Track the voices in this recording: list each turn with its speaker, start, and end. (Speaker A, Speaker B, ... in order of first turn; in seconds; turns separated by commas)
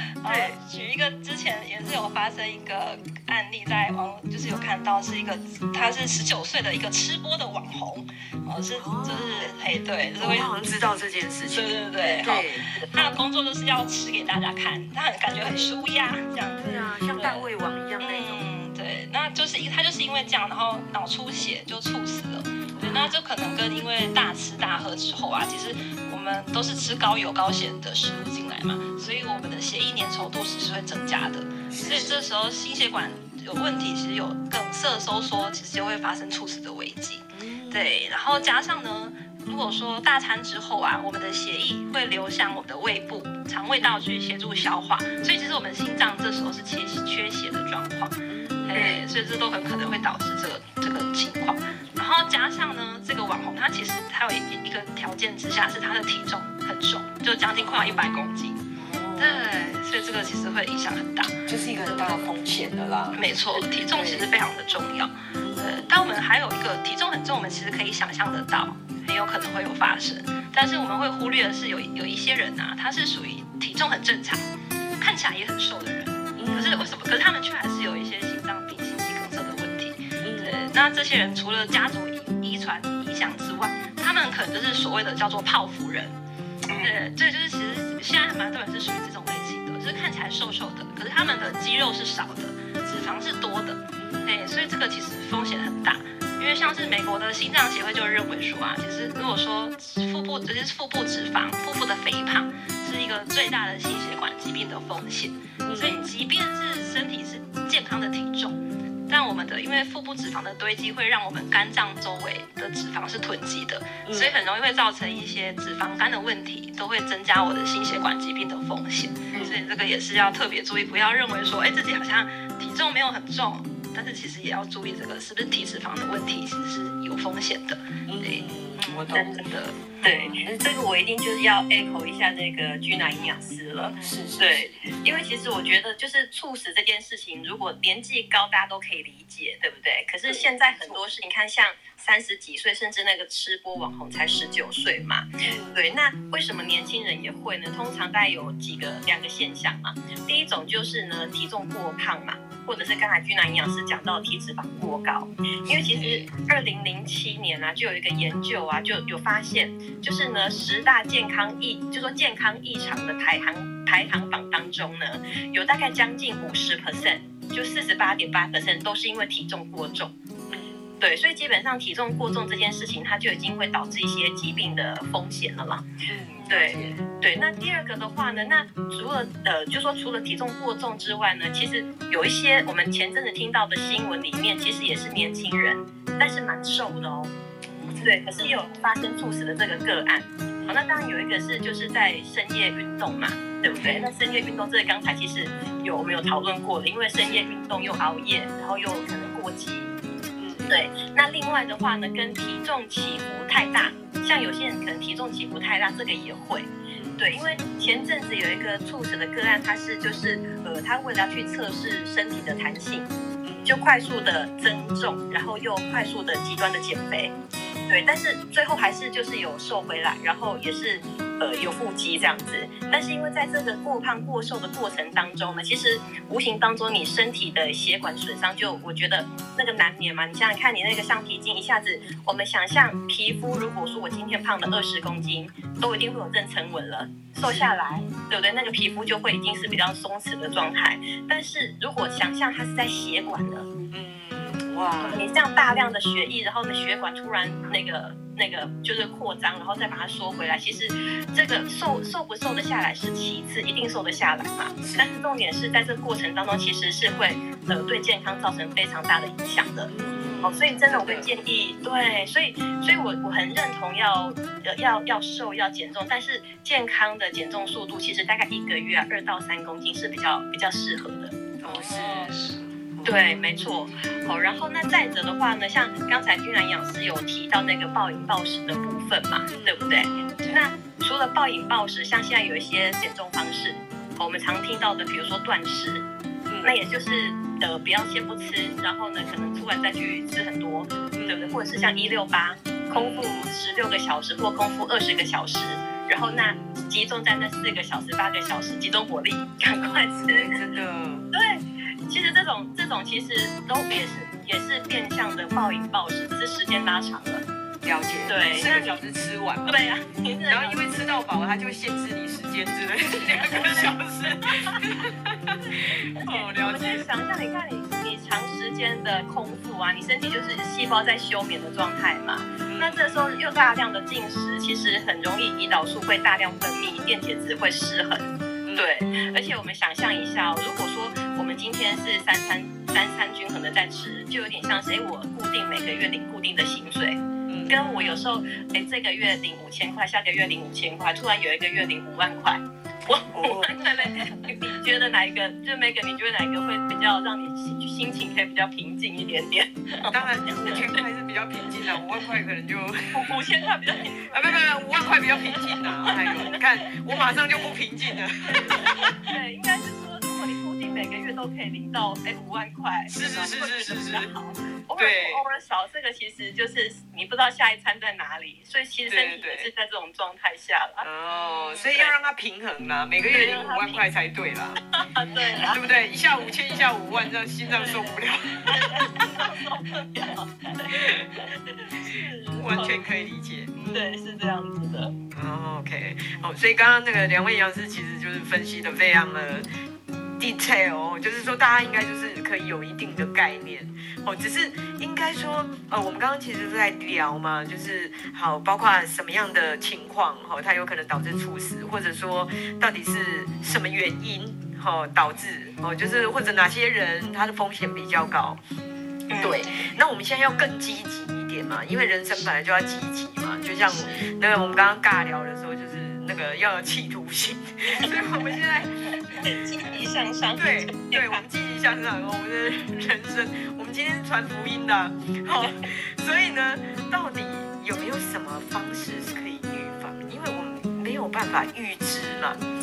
Speaker A: 0.2-10.5, Speaker B: 0.2-0.6, Speaker B: 8.8-9.6, Speaker B: 10.2-12.7, Speaker A: 11.5-17.4, Speaker B: 15.4-15.7, Speaker B: 16.6-18.4, Speaker A: 18.0-58.6, Speaker B: 22.7-23.1, Speaker B: 31.7-32.2, Speaker B: 37.3-37.9, Speaker B: 48.3-48.8, Speaker C: 48.7-49.0, Speaker B: 57.6-58.0, Speaker B: 58.8-59.5, Speaker A: 59.2-62.2, Speaker B: 61.5-64.3, Speaker A: 63.1-74.4, Speaker B: 65.4-66.0, Speaker A: 75.0-86.1, Speaker B: 76.4-76.9, Speaker B: 80.2-80.6, Speaker C: 86.7-86.9, Speaker A: 86.8-129.9, Speaker B: 94.0-94.5, Speaker B: 105.7-106.0, Speaker B: 114.0-114.3, Speaker C: 119.3-119.6, Speaker B: 128.1-129.3, Speaker C: 129.1-129.4, Speaker C: 130.0-170.1, Speaker B: 130.1-130.7, Speaker B: 133.9-134.9, Speaker B: 140.3-141.0, Speaker B: 145.4-145.8, Speaker B: 155.7-156.3, Speaker B: 170.5-170.9, Speaker C: 171.0-175.8, Speaker B: 176.1-177.0, Speaker C: 176.5-187.3, Speaker A: 187.7-188.2, Speaker B: 187.8-188.5, Speaker C: 188.0-199.9, Speaker B: 193.7-194.1, Speaker B: 200.4-200.8, Speaker C: 200.7-213.1, Speaker B: 207.0-207.6, Speaker B: 213.4-213.8, Speaker C: 213.7-217.3, Speaker B: 217.6-218.0, Speaker C: 217.9-243.7, Speaker B: 237.4-237.7, Speaker B: 243.9-245.3, Speaker C: 245.0-259.9, Speaker B: 254.8-255.1, Speaker B: 259.9-261.3, Speaker C: 260.4-271.4, Speaker B: 271.6-273.7, Speaker A: 271.7-272.6, Speaker C: 273.1-286.1, Speaker B: 279.5-280.0, Speaker B: 286.5-286.8, Speaker C: 286.6-300.6, Speaker B: 291.1-291.7, Speaker B: 292.9-293.5, Speaker B: 296.2-296.6, Speaker B: 299.8-301.3, Speaker C: 301.3-307.4, Speaker B: 307.8-309.8, Speaker C: 308.3-309.0, Speaker C: 309.7-310.9, Speaker B: 310.5-317.1, Speaker C: 313.5-313.9, Speaker C: 316.6-350.9, Speaker B: 322.7-323.2, Speaker B: 328.6-328.9, Speaker B: 337.5-337.8, Speaker A: 337.9-338.2, Speaker B: 343.3-343.8, Speaker A: 344.1-344.5, Speaker B: 350.1-353.3, Speaker C: 353.1-354.7, Speaker B: 354.3-359.2, Speaker C: 356.3-356.6, Speaker C: 359.3-371.1, Speaker B: 363.1-364.3, Speaker B: 365.0-365.4, Speaker B: 369.1-369.7, Speaker B: 371.0-374.8, Speaker A: 371.4-371.7, Speaker C: 371.9-372.1, Speaker C: 373.3-374.1, Speaker C: 374.9-375.8, Speaker B: 375.7-379.5, Speaker C: 377.7-383.1, Speaker B: 380.9-381.4, Speaker B: 382.0-383.8, Speaker A: 383.8-384.1, Speaker C: 383.9-385.1, Speaker B: 385.3-389.7, Speaker B: 390.4-408.6, Speaker C: 409.3-409.7, Speaker B: 409.4-419.1, Speaker C: 419.4-421.4, Speaker B: 420.6-432.6